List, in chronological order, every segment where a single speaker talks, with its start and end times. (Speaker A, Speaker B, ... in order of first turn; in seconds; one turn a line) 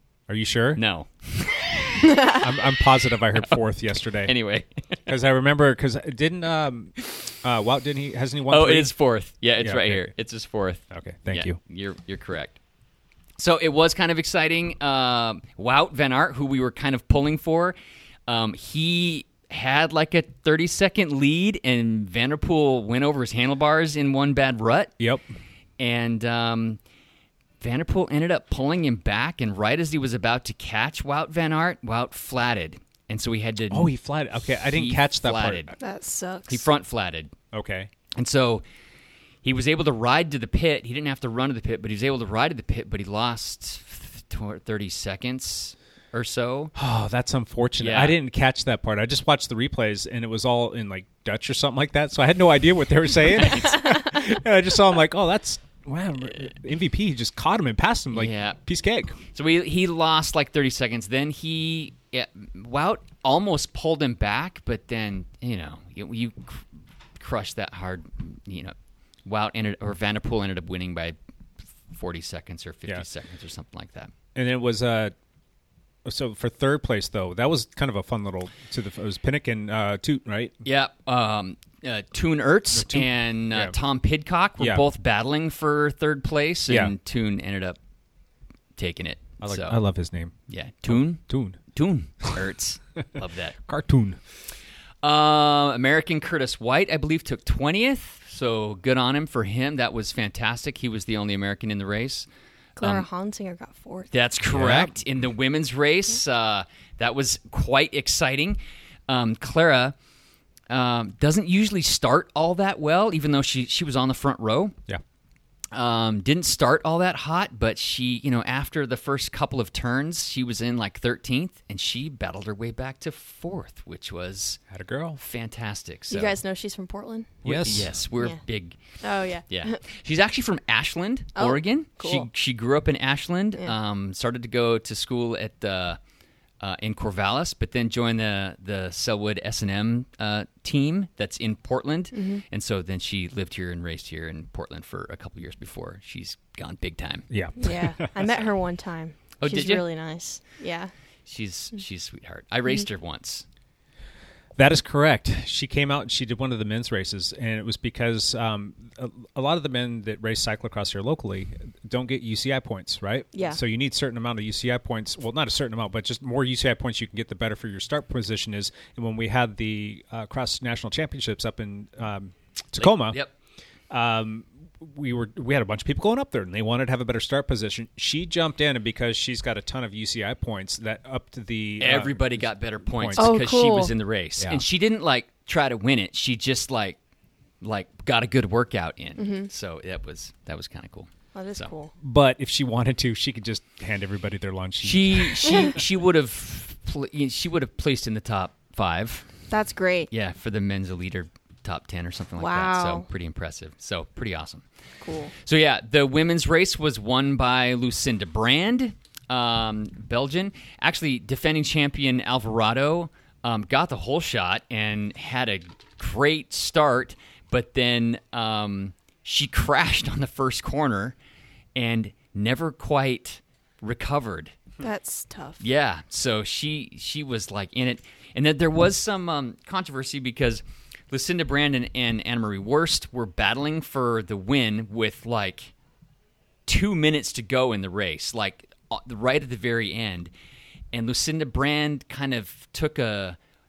Speaker A: 0.3-0.8
Speaker B: 0.8-2.1
Speaker A: 2.3-4.3
Speaker B: 4.2-5.1
Speaker A: 5.1-8.9
Speaker B: 8.5-12.6
Speaker A: 9.6-10.1
Speaker A: 10.9-11.6
Speaker B: 13.4-17.8
Speaker B: 18.3-24.9
Speaker A: 25.0-25.2
Speaker B: 25.8-26.8
Speaker B: 27.6-33.9
Speaker A: 33.7-35.7
Speaker B: 34.6-35.7
Speaker C: 35.8-36.6
Speaker B: 36.5-37.3
Speaker A: 37.5-37.9
Speaker B: 38.1-38.6
Speaker B: 39.4-46.7
Speaker A: 46.8-59.1
Speaker B: 47.8-48.1
Speaker B: 58.1-58.6
Speaker B: 59.3-66.7
Speaker B: 67.2-71.2
Speaker B: 71.9-74.1
Speaker A: 74.3-75.1
Speaker A: 76.0-80.5
Speaker B: 80.6-87.8
Speaker A: 82.7-83.7
Speaker A: 84.6-84.8
Speaker A: 86.7-86.9
Speaker B: 88.8-89.8
Speaker A: 89.4-90.3
Speaker B: 90.5-93.5
Speaker A: 90.9-91.6
Speaker A: 93.7-94.2
Speaker B: 95.0-102.3
Speaker C: 102.8-104.1
Speaker B: 102.8-103.1
Speaker B: 104.1-109.9
Speaker A: 104.5-104.9
Speaker B: 110.7-114.7
Speaker B: 115.7-124.6
Speaker A: 124.7-125.2
Speaker B: 125.2-126.4
Speaker C: 126.1-127.4
Speaker B: 127.4-128.8
Speaker A: 127.4-128.0
Speaker C: 129.0-129.8
Speaker B: 129.5-136.0
Speaker C: 131.3-132.3
Speaker B: 136.6-147.3
Speaker C: 142.1-142.4
Speaker A: 147.3-147.9
Speaker C: 147.6-150.9
Speaker B: 149.4-149.8
Speaker B: 151.3-153.4
Speaker A: 154.6-173.2
Speaker C: 163.3-163.6
Speaker B: 172.8-173.3
Speaker A: 173.9-183.4
Speaker B: 181.8-187.0
Speaker C: 183.2-183.9
Speaker A: 184.4-184.6
Speaker B: 187.6-191.7
Speaker C: 189.2-189.5
Speaker C: 191.3-191.9
Speaker A: 192.0-195.7
Speaker B: 194.8-199.3
Speaker C: 199.5-200.1
Speaker B: 200.1-204.6
Speaker C: 202.4-203.1
Speaker C: 205.0-205.3
Speaker B: 205.4-221.1
Speaker B: 221.7-224.5
Speaker C: 224.8-225.6
Speaker B: 225.6-235.7
Speaker B: 236.7-240.3
Speaker B: 240.9-243.4